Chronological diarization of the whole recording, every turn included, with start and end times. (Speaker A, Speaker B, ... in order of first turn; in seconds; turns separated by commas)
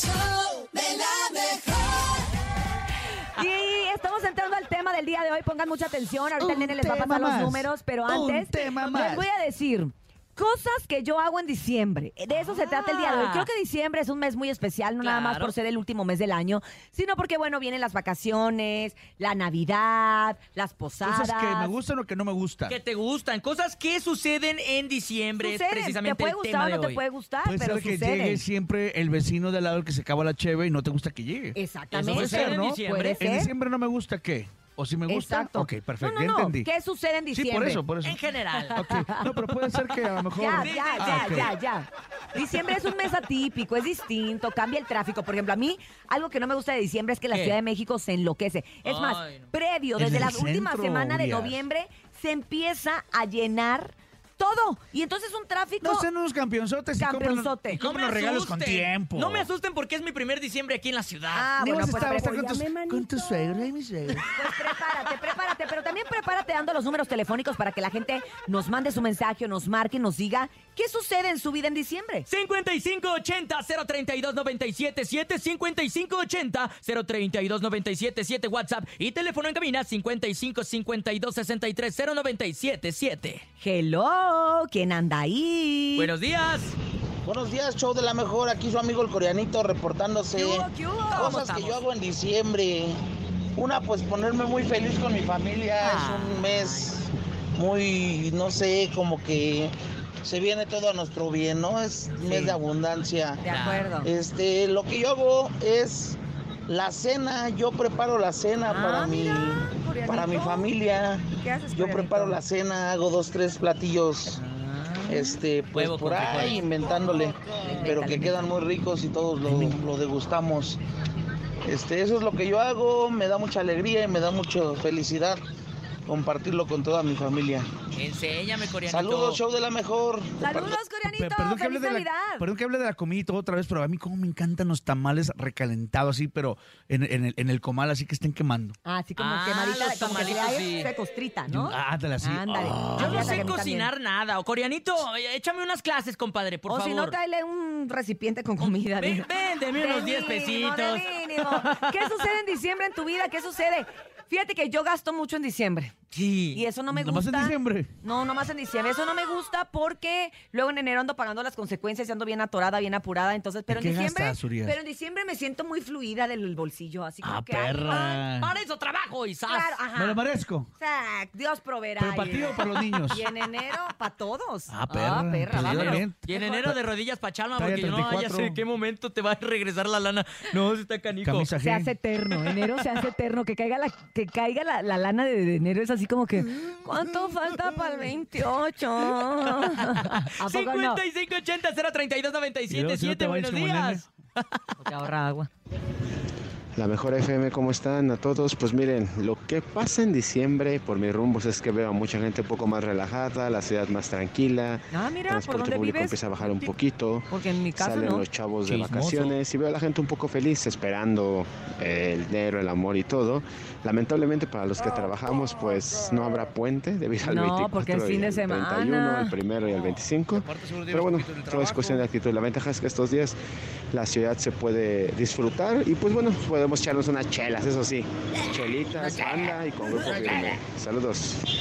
Speaker A: 3.4-21.7, Speaker B: 6.4-9.2, Speaker C: 12.3-13.5, Speaker C: 15.0-15.5, Speaker B: 21.0-22.8, Speaker C: 22.7-27.0, Speaker A: 25.4-28.4, Speaker B: 27.4-36.7, Speaker A: 31.6-33.5, Speaker C: 31.9-33.2, Speaker A: 35.1-37.8, Speaker B: 37.3-38.1, Speaker C: 38.0-38.9, Speaker A: 38.7-39.4, Speaker B: 38.7-41.5, Speaker A: 40.3-56.1, Speaker C: 40.5-41.5, Speaker C: 47.3-47.6, Speaker C: 48.8-49.5, Speaker B: 50.0-51.6, Speaker B: 55.8-59.5, Speaker A: 57.0-57.8, Speaker C: 57.8-61.5, Speaker A: 61.3-63.6, Speaker B: 61.6-64.2, Speaker A: 64.3-72.3, Speaker C: 72.3-83.4, Speaker A: 83.6-86.1, Speaker C: 86.0-86.7, Speaker D: 87.2-93.0, Speaker A: 90.3-91.8, Speaker D: 93.5-99.7, Speaker C: 95.8-97.0, Speaker D: 100.2-103.4, Speaker A: 102.2-102.5, Speaker A: 103.4-104.1, Speaker C: 103.5-103.9, Speaker D: 104.0-114.4, Speaker A: 108.7-110.8, Speaker A: 111.3-112.4, Speaker A: 114.3-115.4, Speaker D: 115.1-120.8, Speaker C: 115.7-116.6, Speaker A: 117.4-118.5, Speaker D: 121.6-125.4, Speaker D: 126.1-127.7, Speaker C: 127.9-129.4, Speaker D: 128.8-130.8, Speaker A: 130.4-132.4, Speaker B: 131.0-138.8, Speaker A: 138.8-143.9, Speaker C: 139.2-140.9, Speaker B: 141.5-143.0, Speaker C: 142.5-147.1, Speaker A: 146.7-155.9, Speaker C: 148.6-151.9, Speaker C: 156.1-156.6, Speaker A: 156.5-168.2, Speaker B: 156.9-157.9, Speaker B: 163.7-164.8, Speaker B: 167.2-168.5, Speaker C: 167.8-169.8, Speaker A: 169.4-170.2, Speaker B: 169.9-170.7, Speaker A: 170.8-176.7, Speaker B: 172.0-173.2, Speaker B: 174.7-176.7, Speaker C: 175.8-181.5, Speaker B: 177.5-178.6, Speaker B: 181.2-181.9, Speaker A: 181.6-191.0, Speaker C: 189.4-194.6, Speaker B: 192.7-194.1, Speaker A: 194.8-195.5, Speaker E: 196.7-223.4, Speaker A: 204.9-206.7, Speaker A: 207.3-208.2, Speaker C: 208.7-209.4, Speaker A: 217.2-219.3, Speaker B: 219.8-222.1, Speaker E: 223.9-231.4, Speaker A: 229.0-229.5